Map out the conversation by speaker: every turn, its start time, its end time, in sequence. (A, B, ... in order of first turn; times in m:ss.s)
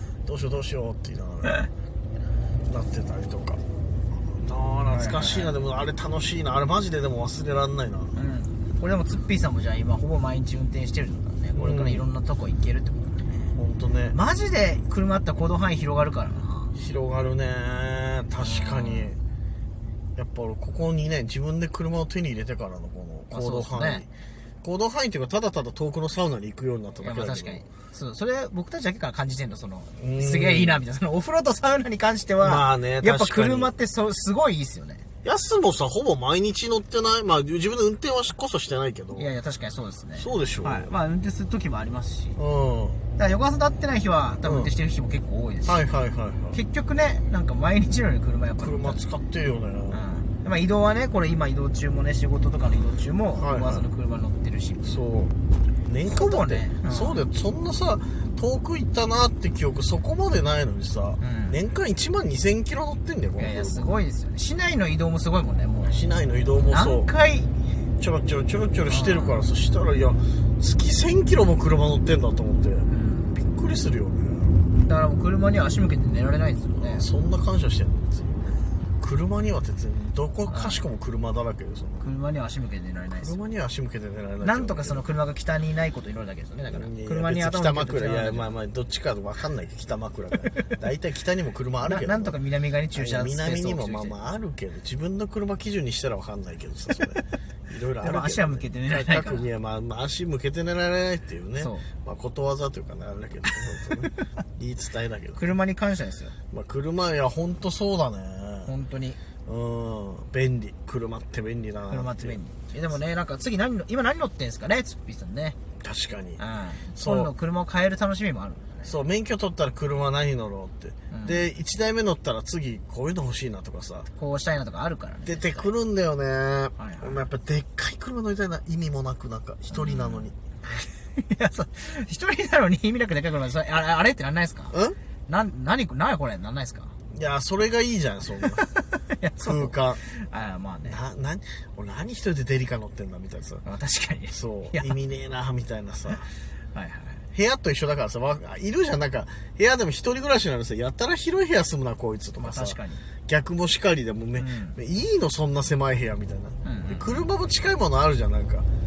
0:00.2-0:01.7 A
0:02.7-0:03.6 A
0:04.3-0:08.2 A
0:04.9-0:05.5 B
0:08.1-0:13.5 B
0:11.6-0:12.1 A
0:13.5-0:14.2 A
0:14.1-0:16.8 B
0:16.8-0:19.2 A
0:18.4-0:19.2 B
0:20.2-0:24.1 A
0:23.3-0:24.0 B
0:24.6-0:27.6 A
0:27.0-0:35.0 B
0:30.0-0:30.8 A
0:32.4-0:33.7 A
0:35.2-0:39.3 A
0:39.2-0:42.4 B
0:40.2-0:40.9 A
0:42.4-0:43.0 A
0:43.2-0:45.8 B
0:44.4-0:44.7 A
0:45.7-0:46.6 A
0:46.5-0:49.0 B
0:48.6-0:50.0 A
0:49.9-0:55.0 B
0:53.4-0:53.9 A
0:54.8-0:55.3 A
0:55.9-1:03.9 A
0:56.1-0:57.2 B
1:01.2-1:01.6 B
1:03.4-1:06.0 B
1:05.9-1:07.1 A
1:06.7-1:07.5 B
1:08.0-1:14.6 A
1:08.9-1:09.5 B
1:12.9-1:13.3 B
1:14.8-1:17.1 B
1:16.8-1:22.1 A
1:20.5-1:20.8 B
1:22.0-1:23.3 B
1:23.1-1:25.2 A
1:24.4-1:28.5 B
1:26.7-1:32.4 A
1:31.8-1:34.2 B
1:33.0-1:45.5 A
1:38.0-1:39.5 B
1:41.6-1:41.9 B
1:45.4-1:46.4 B
1:46.5-1:48.7 A
1:48.7-1:49.2 B
1:49.4-1:52.4 A
1:51.9-1:55.6 B
1:55.8-1:56.4 A
1:56.4-1:58.9 B
1:57.0-1:57.3 A
1:58.8-2:04.1 A
2:01.1-2:01.5 B
2:04.2-2:05.7 B
2:05.2-2:10.4 A
2:06.8-2:07.2 B
2:09.7-2:14.8 B
2:14.7-2:15.0 A
2:15.3-2:16.9 B
2:17.1-2:18.7 A
2:18.4-2:21.0 B
2:19.4-2:20.0 A
2:20.8-2:23.6 A
2:23.6-2:25.0 B
2:24.3-2:26.3 A
2:26.7-2:27.2 B
2:27.3-2:38.7 A
2:32.4-2:33.1 B
2:34.4-2:34.8 B
2:36.6-2:37.3 B